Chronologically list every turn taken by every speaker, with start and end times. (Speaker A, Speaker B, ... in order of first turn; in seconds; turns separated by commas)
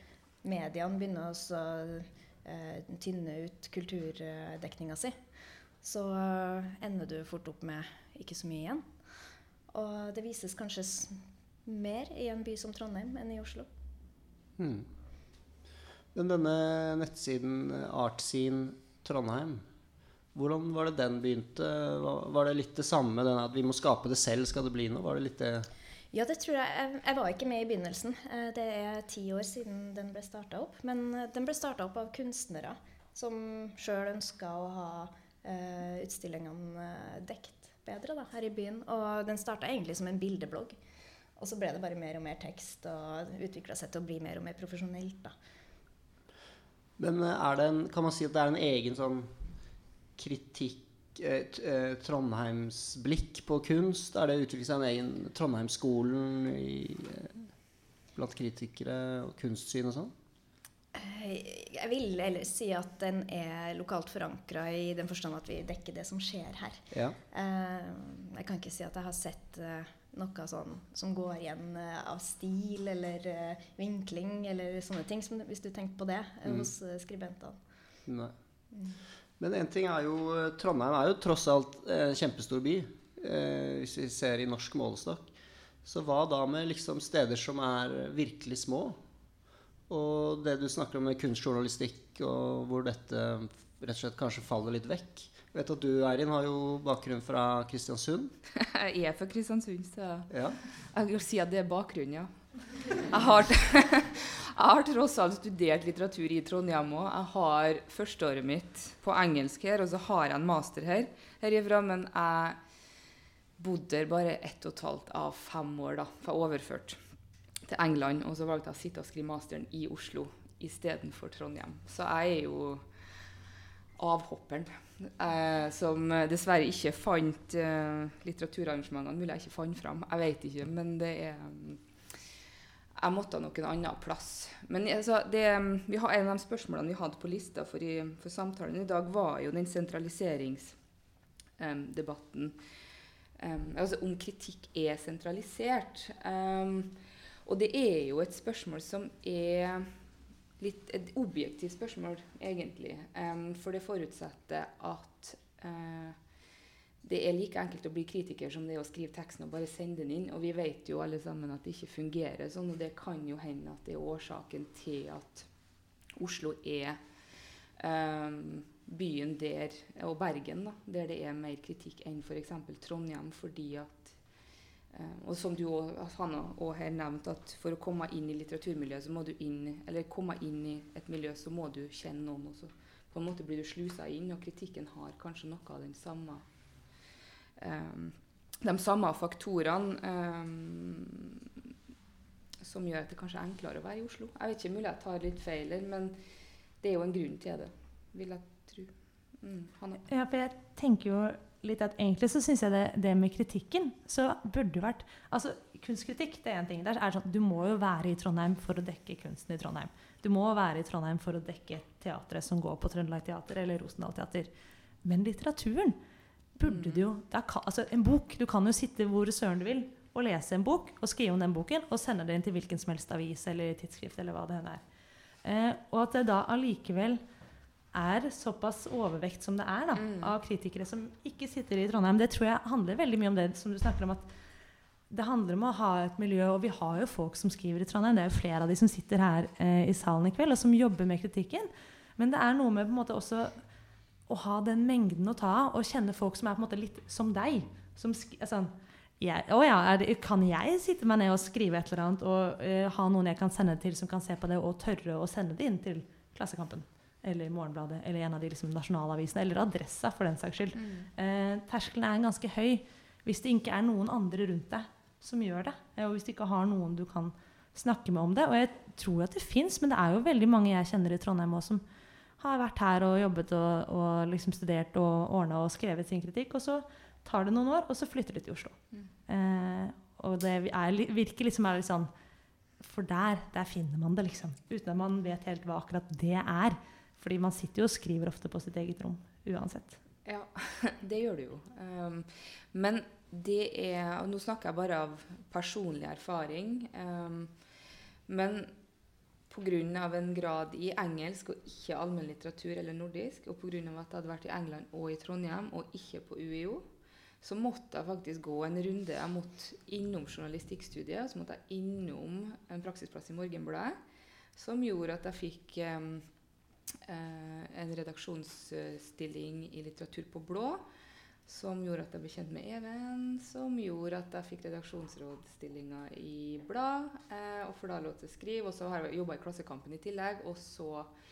Speaker A: 0.4-5.2, Speaker A: 5.8-8.9, Speaker A: 9.7-13.7, Speaker B: 14.6-14.9, Speaker B: 16.1-19.6, Speaker B: 20.3-25.7, Speaker A: 26.1-40.8, Speaker A: 41.4-45.3, Speaker B: 47.0-49.4, Speaker B: 50.2-57.6, Speaker B: 58.1-60.1, Speaker A: 60.9-77.6, Speaker B: 66.9-67.2, Speaker B: 78.1-78.3, Speaker B: 79.4-85.3, Speaker B: 85.8-89.0, Speaker B: 89.9-98.3, Speaker C: 98.6-112.6, Speaker B: 100.3-100.6, Speaker C: 113.6-117.0, Speaker C: 117.6-123.3, Speaker C: 124.0-132.2, Speaker C: 132.9-140.8, Speaker C: 141.6-142.6, Speaker C: 143.4-150.0, Speaker C: 150.6-156.2, Speaker C: 157.0-187.0, Speaker C: 187.6-191.4, Speaker C: 192.6-196.2, Speaker C: 196.8-200.0, Speaker D: 200.1-214.5, Speaker D: 215.0-216.0, Speaker D: 216.6-224.8, Speaker C: 216.6-217.0, Speaker D: 225.4-227.2, Speaker D: 227.9-234.3, Speaker C: 229.9-230.3, Speaker D: 235.1-243.6, Speaker D: 244.3-271.8, Speaker C: 260.7-261.1, Speaker D: 272.4-282.1, Speaker D: 282.8-290.0, Speaker C: 290.2-297.6, Speaker C: 298.3-298.7, Speaker C: 299.5-306.8, Speaker C: 307.4-314.0, Speaker C: 314.5-320.8, Speaker C: 321.4-331.1